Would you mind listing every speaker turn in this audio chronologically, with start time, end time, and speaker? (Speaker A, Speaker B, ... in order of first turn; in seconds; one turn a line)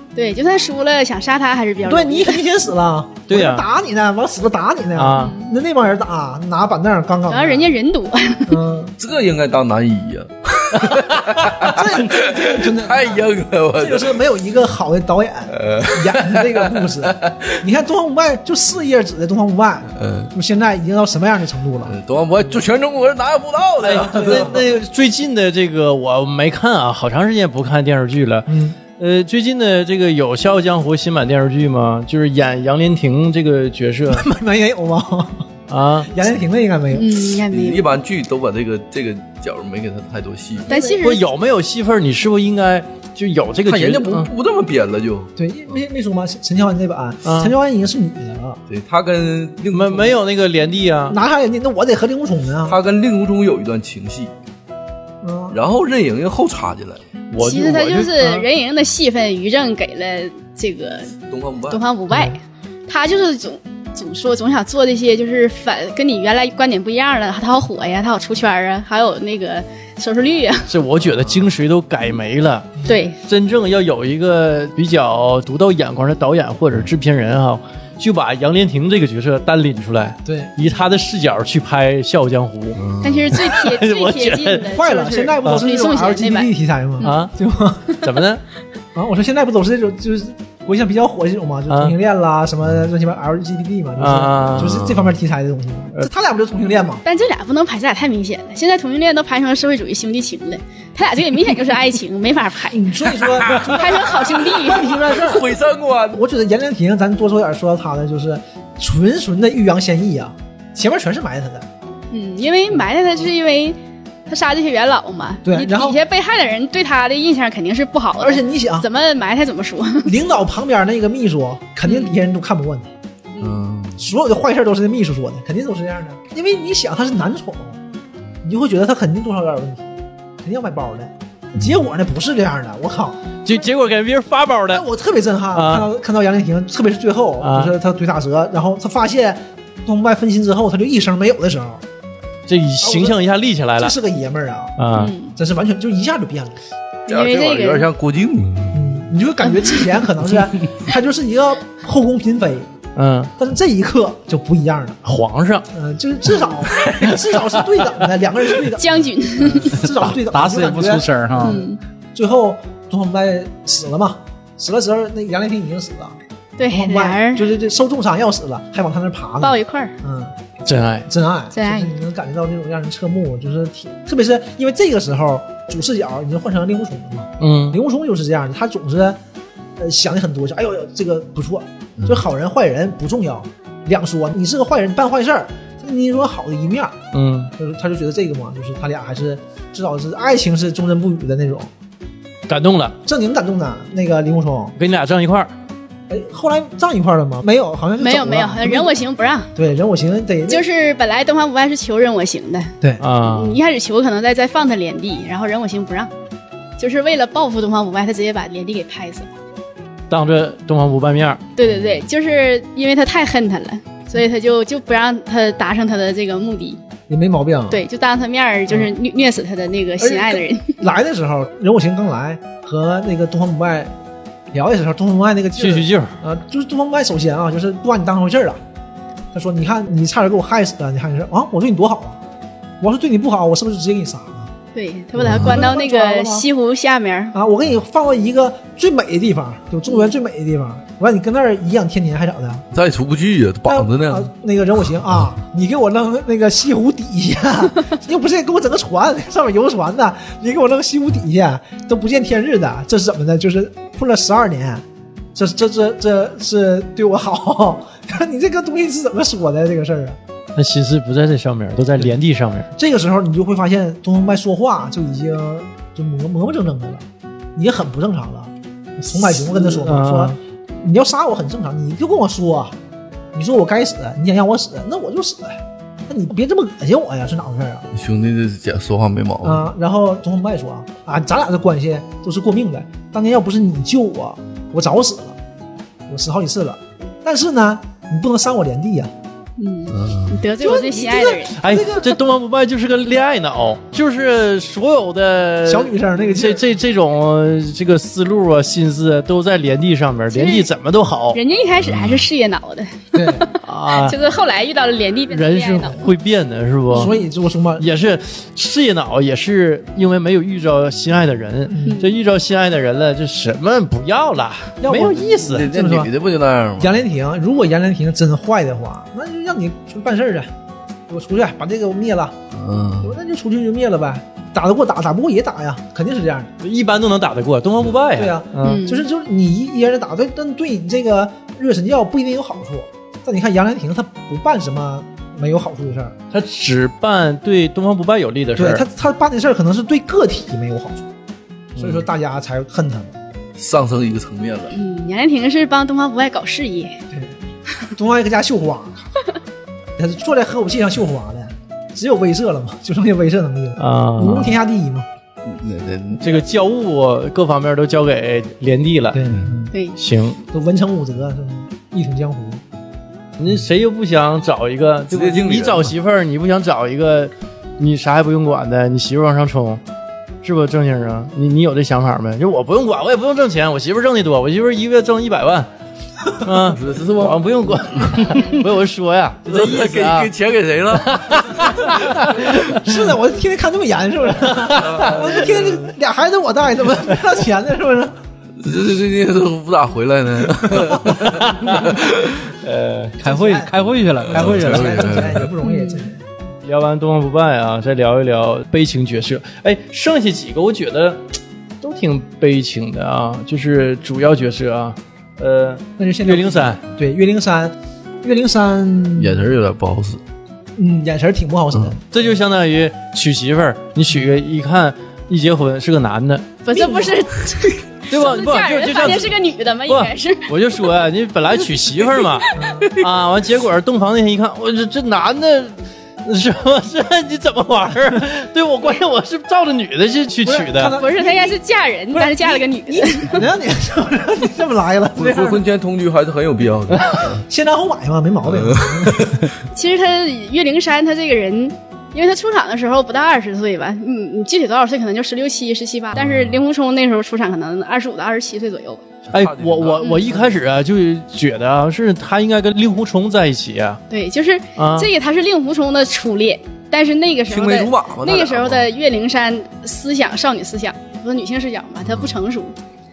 Speaker A: 0.1-2.5
Speaker B: 1.8-7.7
Speaker C: 3.3-3.7
Speaker C: 5.0-5.3
Speaker A: 5.2-5.5
Speaker A: 7.3-8.6
Speaker B: 8.5-8.9
Speaker D: 9.0-14.2
Speaker B: 11.5-22.0
Speaker D: 15.5-17.5
Speaker D: 19.9-20.3
Speaker D: 21.9-24.6
Speaker C: 23.8-34.3
Speaker B: 23.9-24.7
Speaker B: 28.5-28.8
Speaker B: 34.1-35.5
Speaker C: 35.7-36.1
Speaker B: 36.1-37.1
Speaker A: 36.9-37.9
Speaker D: 37.5-40.7
Speaker A: 40.7-41.3
Speaker B: 40.7-41.0
Speaker C: 41.0-44.3
Speaker D: 43.7-45.3
Speaker B: 45.4-48.6
Speaker C: 47.2-47.5
Speaker D: 48.7-50.2
Speaker C: 49.7-51.2
Speaker B: 51.1-52.8
Speaker D: 52.7-54.3
Speaker B: 55.2-55.6
Speaker D: 55.5-57.0
Speaker C: 57.3-58.5
Speaker A: 57.4-61.1
Speaker D: 61.3-61.8
Speaker A: 61.7-70.7
Speaker C: 70.7-84.6
Speaker D: 71.0-71.5
Speaker A: 72.9-73.2
Speaker B: 80.2-80.5
Speaker D: 82.8-83.3
Speaker A: 83.0-87.2
Speaker B: 84.7-88.0
Speaker C: 87.0-87.3
Speaker C: 88.0-88.4
Speaker B: 89.0-97.0
Speaker C: 94.0-94.8
Speaker D: 94.6-95.1
Speaker A: 97.0-104.9
Speaker B: 102.7-105.6
Speaker D: 103.4-106.2
Speaker B: 106.1-111.7
Speaker A: 112.1-120.1
Speaker B: 115.5-116.0
Speaker B: 118.2-118.9
Speaker B: 120.0-122.9
Speaker A: 121.8-122.1
Speaker A: 123.3-123.6
Speaker E: 123.4-124.0
Speaker B: 124.0-127.8
Speaker B: 128.4-129.8
Speaker B: 130.4-133.5
Speaker C: 133.4-134.9
Speaker B: 134.7-141.8
Speaker C: 135.5-135.9
Speaker C: 137.4-137.7
Speaker C: 142.5-143.9
Speaker B: 142.8-143.2
Speaker B: 143.8-144.8
Speaker C: 144.8-145.1
Speaker A: 144.9-145.3
Speaker B: 145.3-146.6
Speaker A: 147.1-147.9
Speaker D: 147.1-148.9
Speaker B: 148.7-152.7
Speaker C: 153.0-153.3
Speaker B: 153.4-155.0
Speaker C: 155.0-155.7
Speaker B: 155.7-161.6
Speaker A: 158.8-159.8
Speaker E: 159.8-161.6
Speaker A: 161.4-161.8
Speaker B: 162.2-170.3
Speaker A: 166.6-167.6
Speaker A: 169.4-169.9
Speaker C: 170.7-171.1
Speaker B: 171.1-179.2
Speaker A: 171.5-171.9
Speaker C: 177.4-177.8
Speaker B: 179.8-187.0
Speaker C: 187.1-187.5
Speaker B: 187.6-191.7
Speaker C: 192.5-193.0
Speaker B: 193.1-194.8
Speaker C: 194.8-195.5
Speaker B: 196.1-199.0
Speaker A: 198.0-199.5
Speaker B: 199.6-200.7
Speaker A: 200.5-206.1
Speaker C: 203.0-203.6
Speaker A: 206.8-209.3
Speaker C: 210.1-211.4
Speaker A: 211.6-216.8
Speaker B: 217.1-217.8
Speaker A: 217.7-220.8
Speaker B: 220.0-223.9
Speaker B: 224.5-228.6
Speaker C: 225.6-226.2
Speaker B: 229.3-232.2
Speaker B: 232.8-234.5
Speaker A: 234.8-237.3
Speaker B: 235.2-236.5
Speaker D: 235.3-235.6
Speaker B: 237.3-242.7
Speaker A: 239.9-240.1
Speaker D: 242.7-244.3
Speaker B: 243.7-260.2
Speaker C: 260.6-262.7
Speaker B: 262.8-272.8
Speaker C: 269.5-270.4
Speaker B: 273.3-277.9
Speaker D: 277.9-279.7
Speaker B: 279.4-285.4
Speaker B: 286.1-289.1
Speaker A: 289.6-291.5
Speaker D: 289.9-290.4
Speaker B: 290.6-292.2
Speaker C: 291.5-301.4
Speaker B: 295.6-296.6
Speaker A: 300.3-300.7
Speaker A: 301.3-306.1
Speaker D: 301.8-302.3
Speaker B: 303.1-303.5
Speaker C: 303.6-304.2
Speaker C: 305.3-307.1
Speaker B: 306.9-307.9
Speaker C: 307.8-315.7
Speaker B: 311.7-312.0
Speaker B: 314.8-316.1
Speaker D: 315.4-317.0
Speaker B: 316.8-320.5
Speaker B: 321.1-322.4
Speaker D: 322.5-323.1
Speaker B: 323.0-326.5
Speaker C: 326.6-328.8
Speaker B: 328.1-336.1
Speaker A: 328.6-329.1
Speaker C: 336.3-338.9
Speaker B: 338.6-341.1
Speaker B: 341.8-343.1
Speaker D: 343.6-344.7
Speaker A: 344.7-347.0
Speaker B: 347.9-349.1
Speaker B: 350.0-355.1
Speaker C: 353.8-354.6
Speaker D: 355.4-356.4
Speaker C: 356.2-359.3
Speaker B: 359.1-359.7
Speaker A: 359.7-360.0
Speaker C: 360.0-360.4
Speaker B: 360.5-362.6
Speaker C: 363.4-369.8
Speaker D: 365.1-365.9
Speaker C: 370.4-375.7
Speaker C: 376.3-380.3
Speaker D: 376.6-378.2
Speaker D: 379.5-382.3
Speaker C: 380.9-382.9
Speaker B: 382.6-388.2
Speaker C: 384.6-385.2
Speaker D: 384.9-385.6
Speaker D: 388.6-392.5
Speaker C: 392.6-393.3
Speaker E: 393.2-395.3
Speaker B: 393.2-393.7
Speaker B: 394.3-396.2
Speaker D: 394.3-395.5
Speaker A: 395.6-396.1
Speaker C: 396.6-401.3
Speaker C: 401.8-406.8
Speaker B: 406.0-409.5
Speaker D: 409.2-410.2
Speaker B: 410.8-412.1
Speaker C: 412.1-416.5
Speaker A: 416.6-420.5
Speaker B: 416.7-417.2
Speaker C: 418.1-419.4
Speaker C: 419.9-430.9
Speaker B: 422.6-422.9
Speaker B: 430.4-431.6
Speaker A: 430.9-433.4
Speaker B: 432.1-435.6
Speaker D: 435.2-437.4
Speaker B: 437.3-439.4
Speaker D: 438.5-439.5
Speaker A: 439.7-449.0
Speaker D: 446.1-446.6
Speaker D: 449.3-450.6
Speaker C: 449.3-454.0
Speaker A: 450.0-450.3
Speaker A: 454.1-462.8
Speaker C: 454.8-455.1
Speaker D: 457.5-458.9
Speaker D: 462.0-462.3